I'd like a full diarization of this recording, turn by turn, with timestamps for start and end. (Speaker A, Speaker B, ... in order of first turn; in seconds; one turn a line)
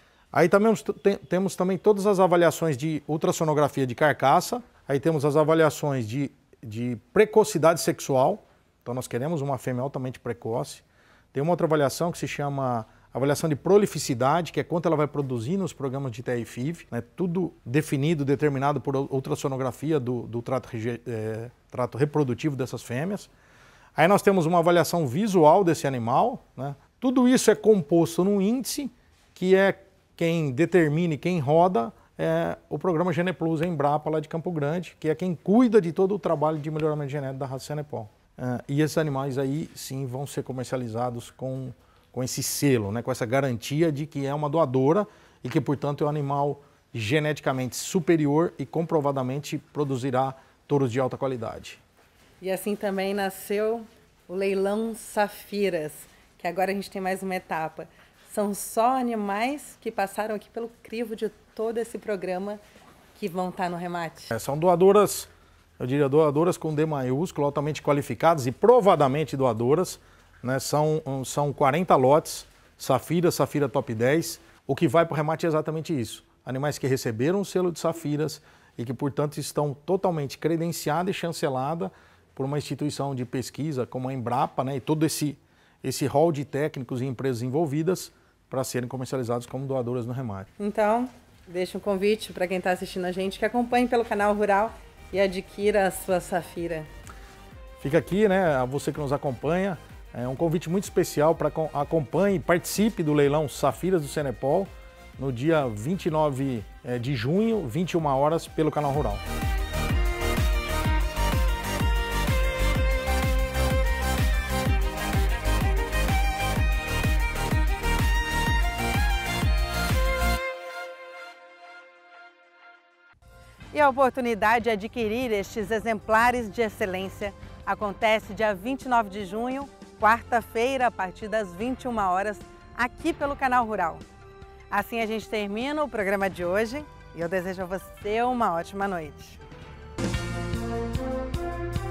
Speaker A: 0.3-23.3
Speaker A: 24.0-51.8
Speaker B: 52.4-62.6
Speaker B: 63.1-64.3
Speaker A: 64.3-90.5
Speaker B: 90.6-96.9
Speaker A: 97.8-109.2
Speaker B: 123.7-134.1
Speaker B: 134.7-139.4